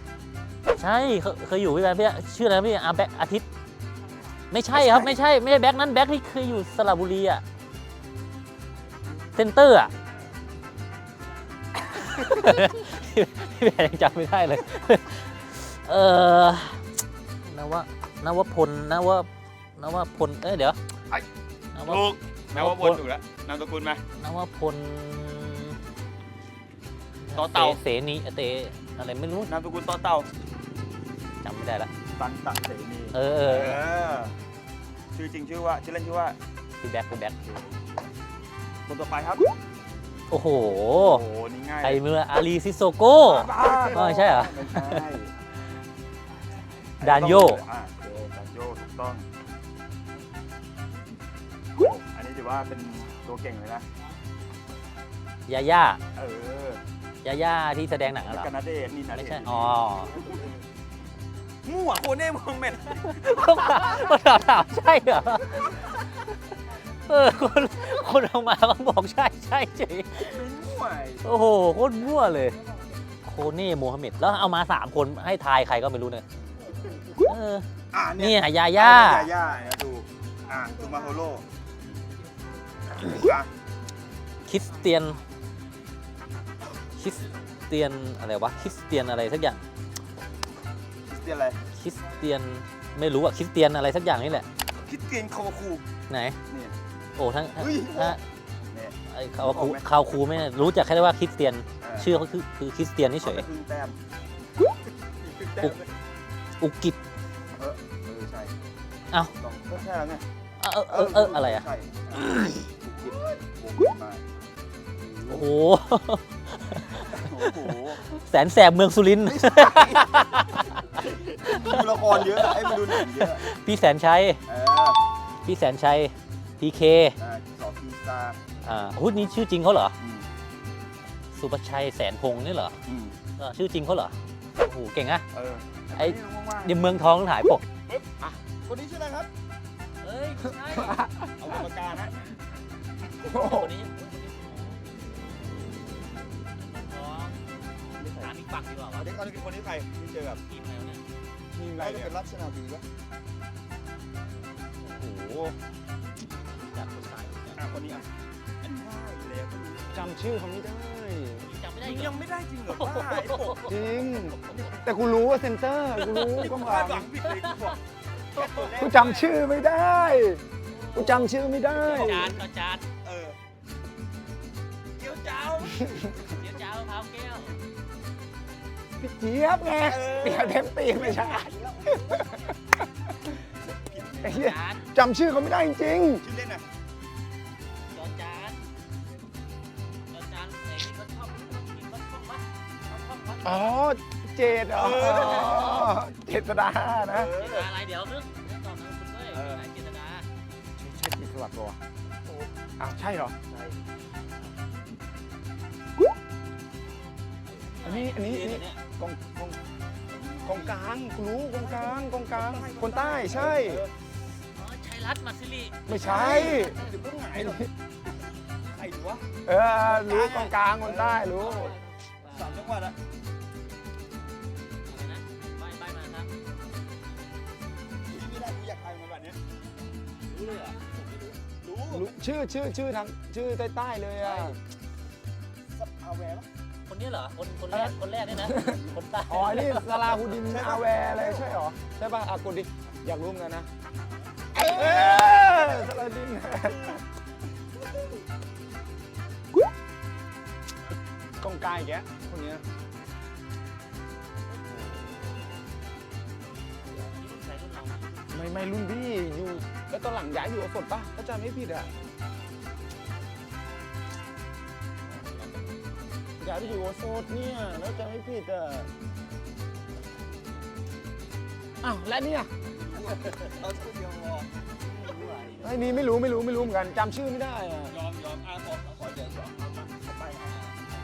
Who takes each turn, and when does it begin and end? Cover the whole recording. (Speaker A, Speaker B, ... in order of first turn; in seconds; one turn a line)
Speaker A: 0.8-3.5
Speaker A: 4.5-7.4
Speaker B: 4.7-5.2
Speaker A: 9.3-9.9
Speaker A: 11.9-16.8
Speaker A: 17.5-19.3
Speaker A: 19.8-20.8
Speaker A: 21.8-23.0
Speaker B: 21.8-24.0
Speaker A: 24.2-25.8
Speaker A: 27.3-29.5
Speaker B: 27.4-27.8
Speaker B: 29.4-30.3
Speaker A: 31.4-31.9
Speaker B: 32.2-34.3
Speaker A: 33.1-33.8
Speaker B: 35.1-36.4
Speaker A: 36.8-37.4
Speaker B: 37.4-37.7
Speaker B: 38.9-39.5
Speaker A: 40.3-41.2
Speaker B: 41.0-42.0
Speaker A: 41.8-45.1
Speaker B: 43.2-45.3
Speaker B: 47.0-49.3
Speaker A: 47.0-47.6
Speaker B: 51.8-53.9
Speaker A: 55.5-56.0
Speaker B: 56.2-56.8
Speaker A: 57.2-58.5
Speaker B: 58.2-60.6
Speaker A: 59.1-60.1
Speaker B: 61.6-64.0
Speaker A: 63.1-65.8
Speaker A: 67.1-70.4
Speaker B: 70.2-71.3
Speaker A: 71.2-72.6
Speaker A: 73.2-76.2
Speaker A: 77.2-77.7
Speaker B: 77.9-81.5
Speaker A: 78.2-79.3
Speaker B: 83.0-83.5
Speaker A: 84.5-85.2
Speaker A: 87.0-89.6
Speaker B: 91.1-91.6
Speaker A: 91.8-94.5
Speaker B: 94.8-95.9
Speaker A: 96.1-96.4
Speaker B: 96.5-96.8
Speaker A: 97.2-98.2
Speaker B: 97.6-98.2
Speaker B: 98.7-99.8
Speaker A: 99.1-103.5
Speaker B: 101.8-102.1
Speaker B: 103.2-104.0
Speaker B: 105.2-105.8
Speaker A: 106.6-107.0
Speaker B: 107.6-108.5
Speaker B: 109.2-110.2
Speaker A: 110.6-112.6
Speaker B: 110.9-112.2
Speaker B: 112.8-114.2
Speaker B: 115.0-115.5
Speaker A: 115.3-117.5
Speaker B: 117.1-118.0
Speaker A: 118.2-124.4
Speaker B: 119.3-120.2
Speaker B: 121.4-123.5
Speaker B: 124.5-125.0
Speaker A: 125.5-127.2
Speaker B: 127.2-128.4
Speaker A: 128.6-129.9
Speaker B: 130.0-130.3
Speaker A: 131.3-132.8
Speaker B: 132.9-133.2
Speaker A: 133.4-135.2
Speaker B: 135.3-137.0
Speaker A: 136.0-137.6
Speaker B: 138.7-139.3
Speaker A: 140.0-141.0
Speaker C: 140.8-141.3
Speaker B: 141.4-142.3
Speaker C: 143.2-143.7
Speaker A: 143.3-144.8
Speaker A: 146.6-147.4
Speaker B: 148.0-148.3
Speaker A: 148.2-149.1
Speaker B: 148.9-150.4
Speaker A: 150.5-151.0
Speaker C: 151.5-152.1
Speaker B: 151.8-152.8
Speaker C: 155.0-155.6
Speaker A: 156.5-157.6
Speaker B: 157.5-158.1
Speaker B: 158.6-160.0
Speaker C: 159.9-161.5
Speaker A: 161.4-162.2
Speaker B: 161.8-163.8
Speaker A: 162.7-163.7
Speaker C: 163.7-167.1
Speaker B: 164.4-164.8
Speaker A: 166.0-166.5
Speaker B: 166.4-167.8
Speaker A: 167.4-167.7
Speaker B: 168.3-169.3
Speaker A: 168.4-168.8
Speaker C: 168.8-170.4
Speaker A: 170.7-172.8
Speaker C: 170.9-172.3
Speaker B: 171.9-172.4
Speaker B: 173.0-173.4
Speaker B: 175.0-175.9
Speaker A: 176.2-177.6
Speaker C: 179.0-182.2
Speaker B: 179.8-182.4
Speaker B: 183.8-184.4
Speaker A: 184.2-184.8
Speaker C: 184.2-186.2
Speaker B: 186.2-186.6
Speaker A: 187.9-188.6
Speaker A: 190.1-193.8
Speaker C: 193.4-197.3
Speaker B: 194.7-196.0
Speaker A: 195.1-195.7
Speaker B: 197.1-197.7
Speaker A: 197.4-200.3
Speaker B: 199.3-199.6
Speaker C: 200.8-201.8
Speaker B: 202.2-202.5
Speaker C: 202.8-203.3
Speaker B: 203.5-203.8
Speaker A: 207.5-208.6
Speaker C: 207.8-209.6
Speaker B: 208.2-208.8
Speaker B: 210.1-210.8
Speaker C: 210.4-213.8
Speaker B: 211.6-213.9
Speaker A: 214.6-216.7
Speaker C: 215.9-216.8
Speaker B: 216.0-217.6
Speaker B: 218.6-219.2
Speaker C: 219.5-221.8
Speaker B: 219.8-221.8
Speaker A: 221.3-222.7
Speaker B: 222.3-223.0
Speaker A: 224.9-226.3
Speaker B: 228.1-229.4
Speaker A: 230.3-231.3
Speaker B: 231.4-232.1
Speaker C: 231.9-234.6
Speaker B: 234.2-234.6
Speaker B: 235.7-236.5
Speaker A: 236.9-239.9
Speaker C: 237.7-243.7
Speaker B: 240.4-241.5
Speaker B: 244.5-247.0
Speaker C: 244.6-247.0
Speaker C: 251.4-252.6
Speaker B: 254.6-255.2
Speaker A: 257.0-258.7
Speaker C: 258.3-261.9
Speaker B: 265.1-265.6
Speaker C: 266.4-268.9
Speaker C: 271.8-272.5
Speaker B: 272.6-276.0
Speaker C: 275.6-277.9
Speaker B: 277.9-280.8